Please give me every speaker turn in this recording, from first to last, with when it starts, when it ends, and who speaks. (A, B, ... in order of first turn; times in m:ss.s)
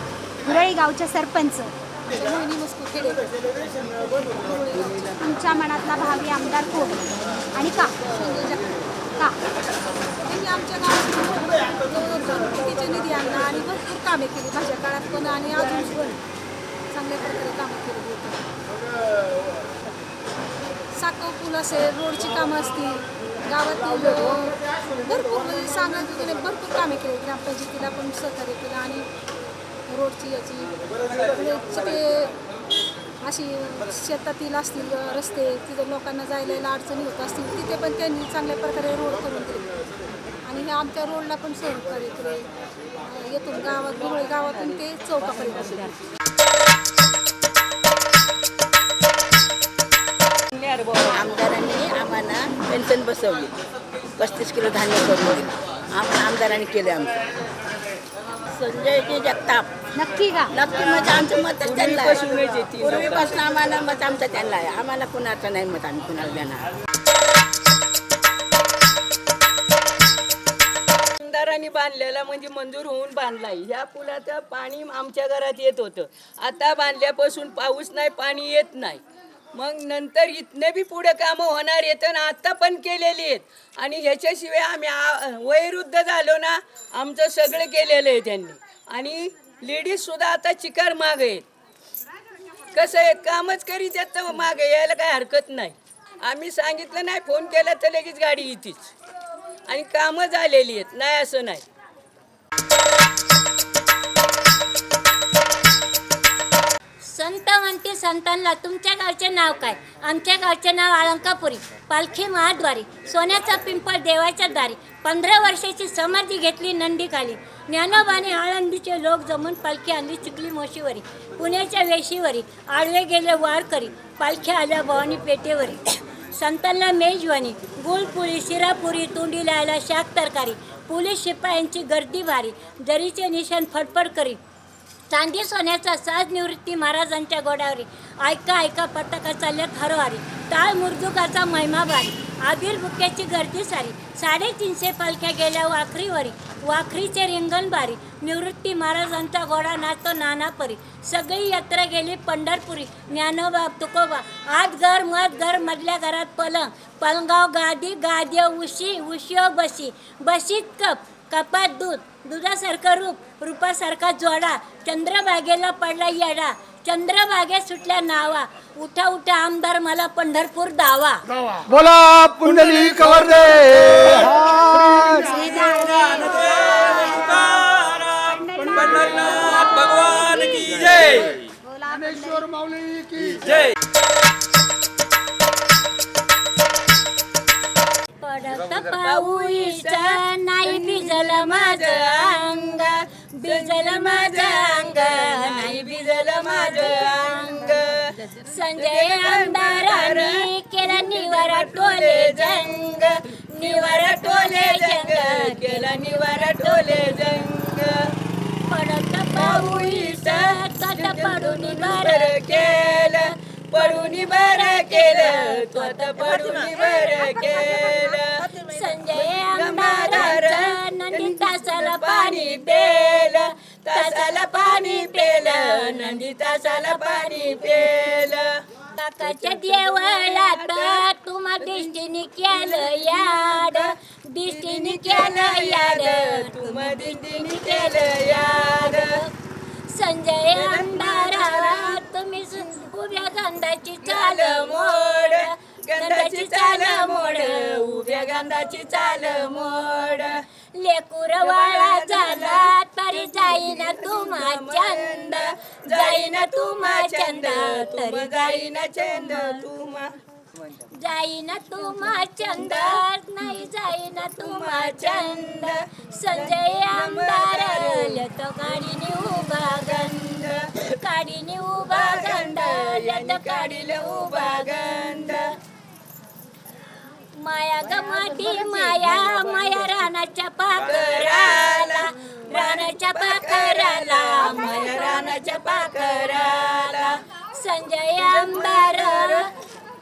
0:00.4-0:01.7 A
0:02.1-0:03.2 B
0:03.8-0:05.2 B
0:05.2-0:07.0 A
0:07.5-0:08.1 A
0:08.0-0:08.7 B
0:10.2-0:16.2 B
0:16.9-0:18.5 B
0:20.9-0:29.1 B
0:29.9-0:32.3 B
0:33.2-0:39.7 B
0:40.4-0:42.5 B
0:43.0-0:46.0 B
0:50.5-0:51.2 C
0:51.1-0:53.5 D
0:54.2-0:57.1 D
0:58.5-0:59.9 D
0:59.9-1:00.5 A
1:00.5-1:06.7 D
1:01.6-1:03.3 C
1:11.2-1:19.0 C
1:19.5-1:31.4 C
1:32.7-1:38.9 C
1:39.7-1:41.6 C
1:47.0-2:14.4 E
2:15.1-2:51.2 E
2:52.6-2:53.0 A
2:53.0-2:53.4 E
2:54.0-3:03.4 A
3:08.2-3:17.8 E
3:09.0-3:28.1 C
3:18.4-3:27.3 E
3:28.6-3:48.0 E
3:29.3-3:38.4 C
3:39.1-3:48.6 C
3:48.9-3:59.3 E
3:49.2-3:51.0 C
3:51.6-3:53.9 C
3:54.5-3:59.2 C
3:59.9-4:09.6 E
4:00.5-4:02.0 C
4:04.0-4:10.4 C
4:10.7-4:19.6 E
4:11.4-4:20.1 C
4:20.8-4:35.4 E
4:22.5-4:23.0 C
4:24.3-4:25.8 C
4:26.3-4:28.2 C
4:29.7-4:30.9 C
4:31.9-4:35.5 C
4:37.3-4:49.5 E
4:38.2-4:39.3 C
4:40.8-4:47.2 C
4:48.2-4:49.5 C